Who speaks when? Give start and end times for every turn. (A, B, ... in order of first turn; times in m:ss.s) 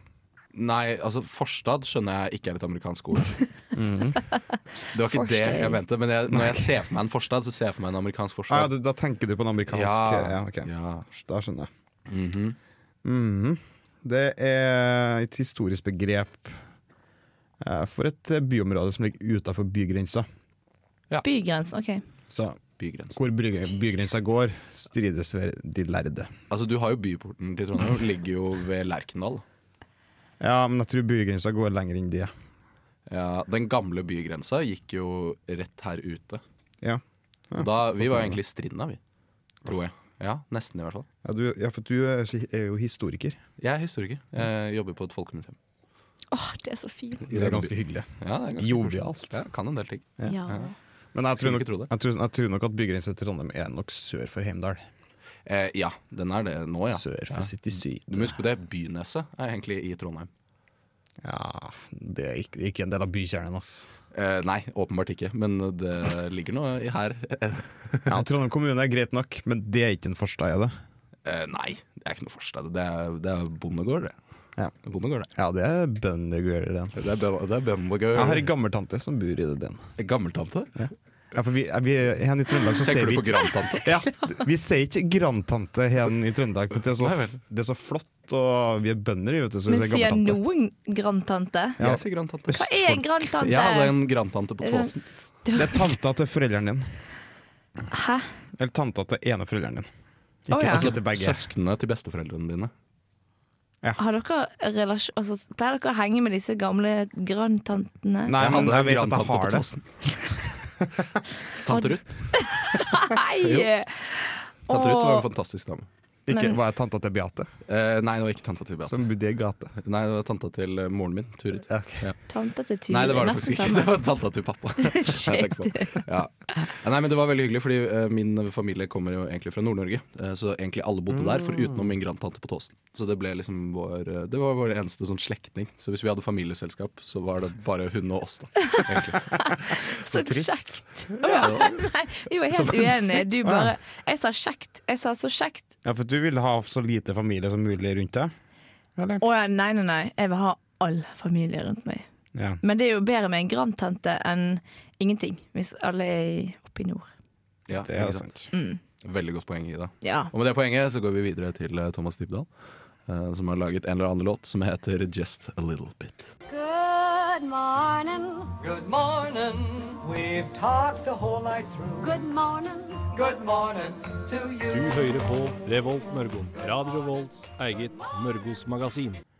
0:00.5-0:03.4 A
0:03.7-0:04.2 B
0:04.9-0:05.8 C
0:04.9-0:08.7 A
0:06.3-0:06.8 B
0:08.5-0:11.7 B
0:09.7-0:11.0 A
0:12.1-0:12.6 A
0:13.0-0:16.6 B
0:17.6-0:20.3 B
0:21.2-0:22.0 C
0:22.3-0:22.6 B
0:22.8-0:23.2 A
0:23.1-0:26.3 B
0:26.5-0:29.4 A
0:30.4-0:32.3 B
0:33.1-0:36.4 A
0:36.8-0:38.4 B
0:37.6-0:39.0 A
0:39.6-0:41.1 A
0:41.2-0:43.4 B
0:43.6-0:45.6 A
0:46.3-0:47.2 C
0:47.2-0:50.7 A
0:47.3-0:49.4 B
0:50.2-0:50.7 C
0:51.1-0:54.8 B
0:51.4-0:51.9 A
0:55.4-1:00.3 A
0:56.9-0:58.4 B
1:01.2-1:03.9 B
1:04.1-1:08.2 A
1:08.1-1:10.7 B
1:11.2-1:14.1 A
1:14.8-1:15.3 A
1:15.3-1:17.0 B
1:17.0-1:18.4 A
1:18.1-1:19.8 B
1:20.0-1:20.7 A
1:20.8-1:30.4 B
1:22.8-1:24.0 A
1:27.0-1:27.4 A
1:29.7-1:31.8 C
1:31.8-1:33.0 B
1:31.8-1:35.0 A
1:32.5-1:33.9 C
1:34.6-1:35.9 C
1:35.5-1:36.9 B
1:37.9-1:38.3 C
1:38.6-1:39.9 B
1:40.5-1:41.4 B
1:40.5-1:40.9 C
1:40.7-1:42.7 A
1:44.0-1:48.3 C
1:48.3-1:49.7 B
1:48.4-1:49.8 A
1:51.6-1:52.4 A
1:51.7-1:55.3 C
1:53.4-1:53.7 A
1:54.7-1:55.9 A
1:56.3-1:57.5 B
1:56.3-1:56.6 C
1:57.7-1:59.1 A
1:58.8-1:59.7 B
1:59.8-2:02.2 A
2:01.7-2:02.1 B
2:02.3-2:04.0 C
2:02.9-2:19.4 A
2:04.8-2:06.0 C
2:11.1-2:11.8 B
2:19.3-2:25.7 C
2:20.1-2:21.2 B
2:21.3-2:21.9 A
2:22.5-2:23.2 A
2:23.4-2:23.7 B
2:25.8-2:28.3 B
2:29.0-2:29.2 B
2:29.2-2:32.0 C
2:32.3-2:32.6 B
2:32.6-2:37.1 C
2:37.7-2:38.2 A
2:37.7-2:38.5 B
2:38.5-2:38.8 C
2:39.0-2:42.5 A
2:40.0-2:40.3 C
2:43.1-2:46.3 A
2:46.5-2:48.6 D
2:48.6-2:52.0 E
2:52.0-2:53.2 D
2:53.1-2:54.9 E
2:54.7-2:59.2 F